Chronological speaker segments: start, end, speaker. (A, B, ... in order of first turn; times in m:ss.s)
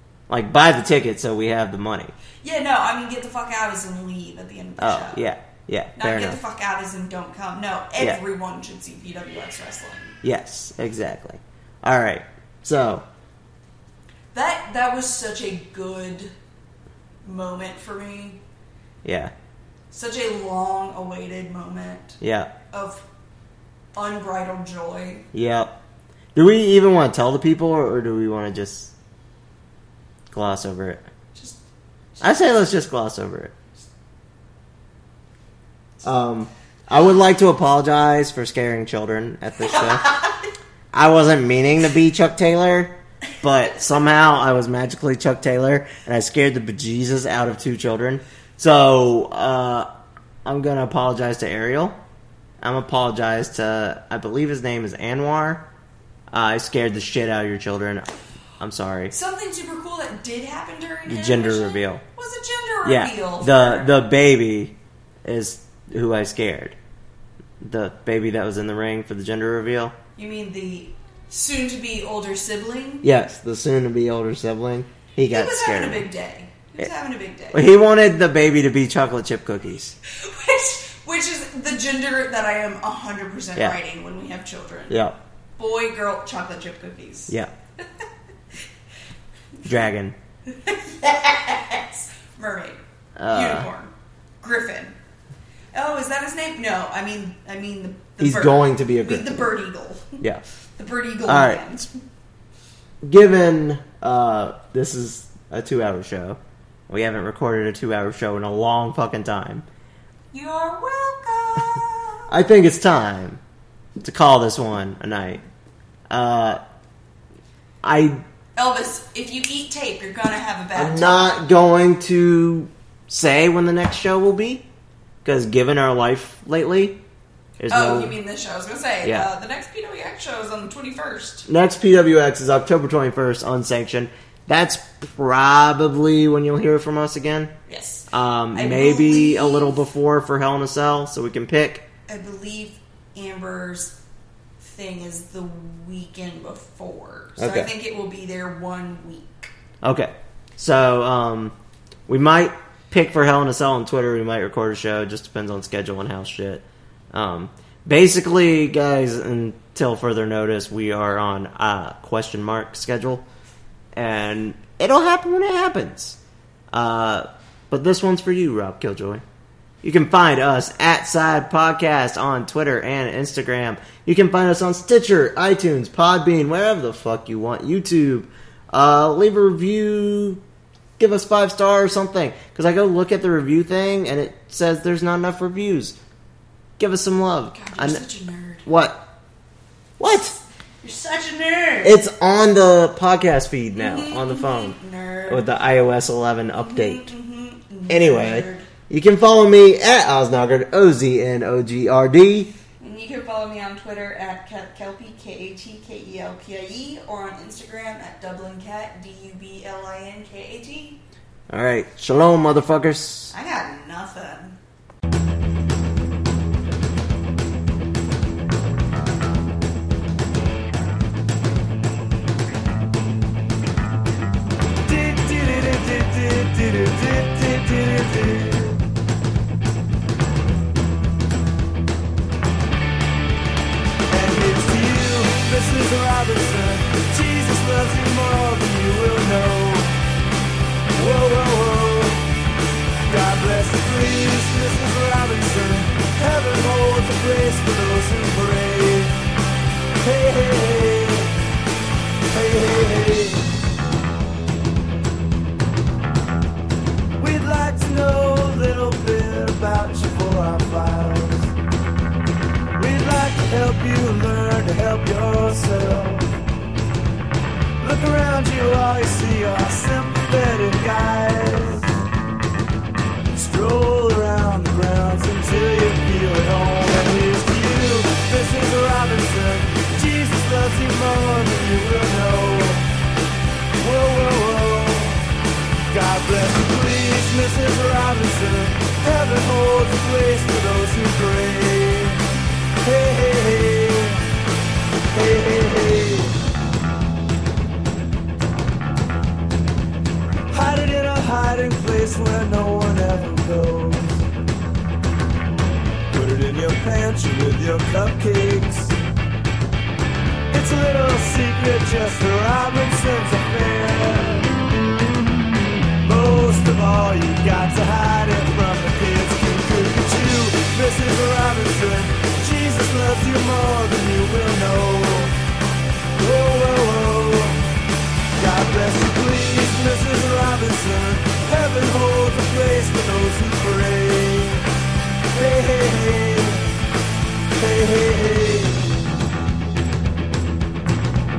0:00.3-0:02.1 A
0:02.4-0:05.3 B
0:04.8-0:06.4 A
0:06.0-0:10.2 B
0:10.2-0:13.0 A
0:14.3-0:16.3 B
0:17.2-0:18.4 B
0:19.0-0:19.3 A
0:19.9-0:22.2 B
0:22.2-0:22.5 A
0:22.7-0:23.0 B
0:23.9-0:25.3 B
0:25.3-0:25.8 A
0:26.3-0:28.9 A
0:30.3-0:31.0 A
0:31.3-0:31.6 B
0:32.2-0:32.6 B
0:32.2-0:33.5 A
0:36.0-0:40.1 A
0:39.6-0:40.4 B
0:40.9-0:49.9 A
0:50.4-0:52.0 A
0:52.6-0:55.6 A
0:56.3-0:59.1 A
0:59.1-1:04.0 B
1:01.1-1:02.0 A
1:02.8-1:06.8 A
1:07.6-1:10.0 A
1:10.2-1:13.1 B
1:13.0-1:16.1 A
1:15.3-1:17.6 B
1:17.5-1:20.0 A
1:20.1-1:25.0 B
1:24.9-1:25.2 A
1:25.6-1:28.0 B
1:29.5-1:29.9 B
1:29.6-1:30.2 A
1:30.4-1:35.0 B
1:33.2-1:33.7 A
1:35.7-1:40.2 B
1:38.2-1:39.5 A
1:40.8-1:41.9 B
1:41.2-1:41.6 A
1:43.0-1:49.6 A
1:50.3-1:52.3 B
1:52.3-1:53.4 A
1:54.0-1:55.4 A
1:56.1-1:56.6 A
1:57.8-1:58.2 A
1:58.6-2:01.4 B
2:00.7-2:04.7 A
2:05.2-2:07.0 A
2:07.6-2:08.2 A
2:07.7-2:11.5 B
2:09.0-2:09.3 A
2:11.5-2:17.5 A
2:17.7-2:19.8 B
2:18.1-2:21.8 A
2:22.1-2:24.0 B
2:24.6-2:29.5 B
2:27.4-2:27.7 A
2:29.8-2:31.5 A
2:32.1-2:43.2 A
2:43.9-2:46.2 A
2:46.7-2:49.2 A
2:49.8-3:00.4 A
3:01.0-3:06.0 A
3:06.8-3:08.0 A
3:07.5-3:08.7 B
3:08.6-3:09.0 A
3:10.0-3:10.4 A
3:10.8-3:12.0 B
3:11.8-3:14.8 A
3:13.8-3:15.5 B
3:15.3-3:17.1 A
3:16.5-3:18.7 B
3:17.9-3:22.5 A
3:22.8-3:31.0 B
3:31.5-3:33.3 A
3:33.3-3:34.6 B
3:44.8-3:48.8 C
3:54.1-3:59.9 C
4:00.9-4:02.2 C
4:03.0-4:09.2 C
4:10.0-4:11.3 C
4:12.3-4:13.5 C
4:17.2-4:21.5 C
4:22.8-4:26.3 C
4:27.8-4:31.9 C
4:33.3-4:42.9 C
4:43.8-4:45.2 C
4:45.9-4:52.2 C
4:52.8-4:54.2 C
4:55.1-4:56.4 C
5:00.5-5:04.3 C
5:06.1-5:09.0 C
5:10.5-5:14.5 C
5:16.0-5:25.3 C
5:26.2-5:27.6 C
5:28.4-5:34.6 C
5:35.3-5:36.6 C
5:37.5-5:39.0 C